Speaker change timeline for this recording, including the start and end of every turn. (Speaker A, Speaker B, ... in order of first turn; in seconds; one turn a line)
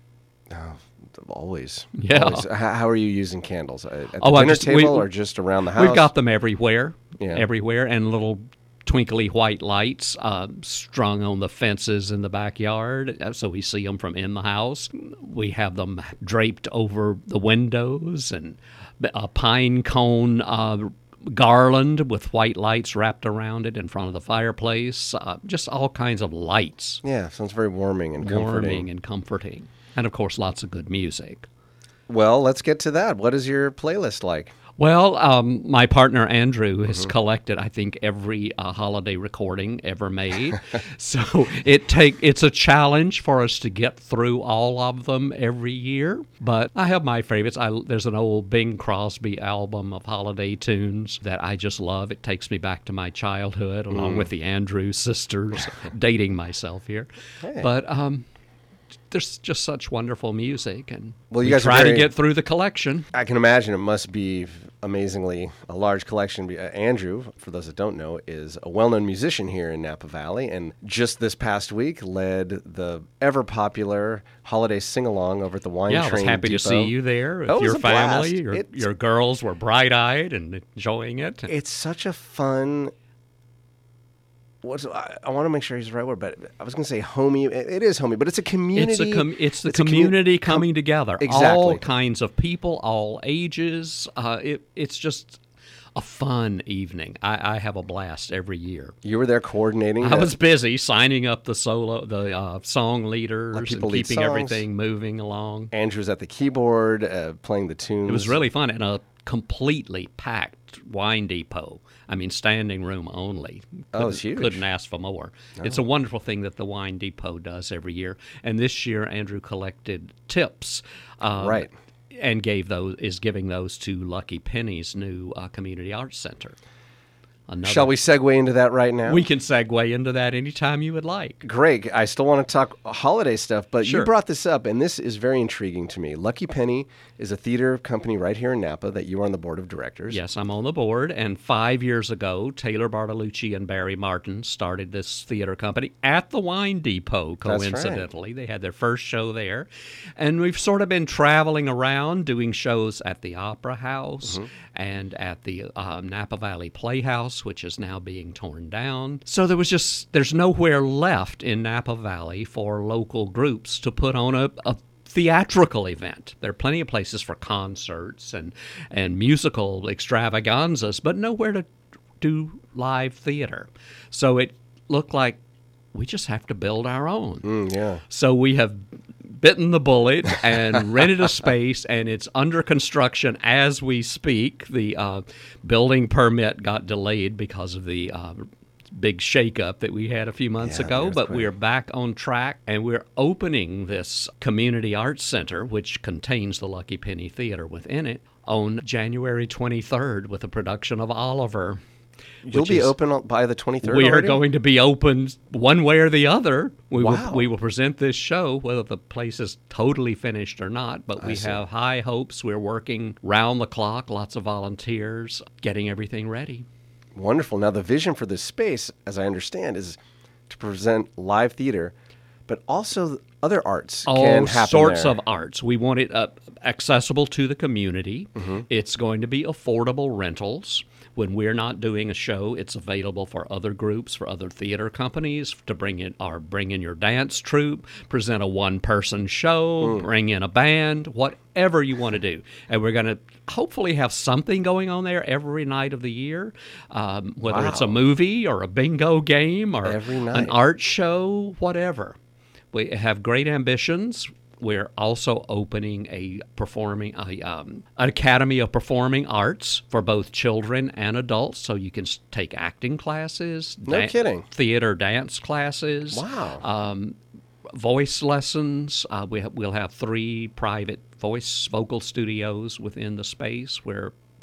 Speaker A: 0.5-6.1
Speaker B: 2.0-2.5
Speaker B: 4.2-5.1
Speaker B: 5.7-27.0
Speaker A: 7.2-7.5
Speaker A: 27.0-28.9
Speaker B: 28.2-31.5
Speaker A: 32.1-34.5
Speaker B: 34.8-58.2
Speaker A: 53.9-54.3
Speaker A: 57.4-57.7
Speaker B: 59.1-63.1
Speaker A: 61.3-62.1
Speaker A: 63.1-76.9
Speaker B: 75.9-81.5
Speaker A: 77.5-78.8
Speaker A: 81.5-82.9
Speaker A: 84.6-90.6
Speaker B: 88.7-95.4
Speaker A: 91.2-91.9
Speaker B: 96.0-99.0
Speaker A: 99.0-100.3
Speaker B: 100.0-105.7
Speaker A: 103.5-104.6
Speaker A: 105.7-108.4
Speaker B: 108.1-126.6
Speaker A: 113.9-114.6
Speaker A: 121.4-121.7
Speaker B: 127.5-127.9
Speaker A: 127.7-129.2
Speaker B: 129.1-131.4
Speaker A: 131.4-140.2
Speaker B: 133.8-134.1
Speaker B: 140.1-171.7
Speaker A: 147.5-148.1
Speaker B: 172.2-175.4
Speaker B: 175.9-177.5
Speaker A: 177.4-178.0
Speaker B: 178.1-201.8
Speaker A: 190.6-191.5
Speaker A: 202.5-204.4
Speaker B: 202.5-202.9
Speaker B: 203.8-216.7
Speaker A: 207.0-207.4
Speaker A: 211.2-211.6
Speaker A: 217.2-220.0
Speaker A: 220.5-221.9
Speaker A: 222.5-225.2
Speaker B: 224.1-252.2
Speaker A: 228.4-228.6
Speaker A: 247.4-248.0
Speaker A: 249.8-250.6
Speaker B: 252.7-267.2
Speaker A: 263.9-264.5
Speaker A: 266.1-266.6
Speaker B: 267.7-274.1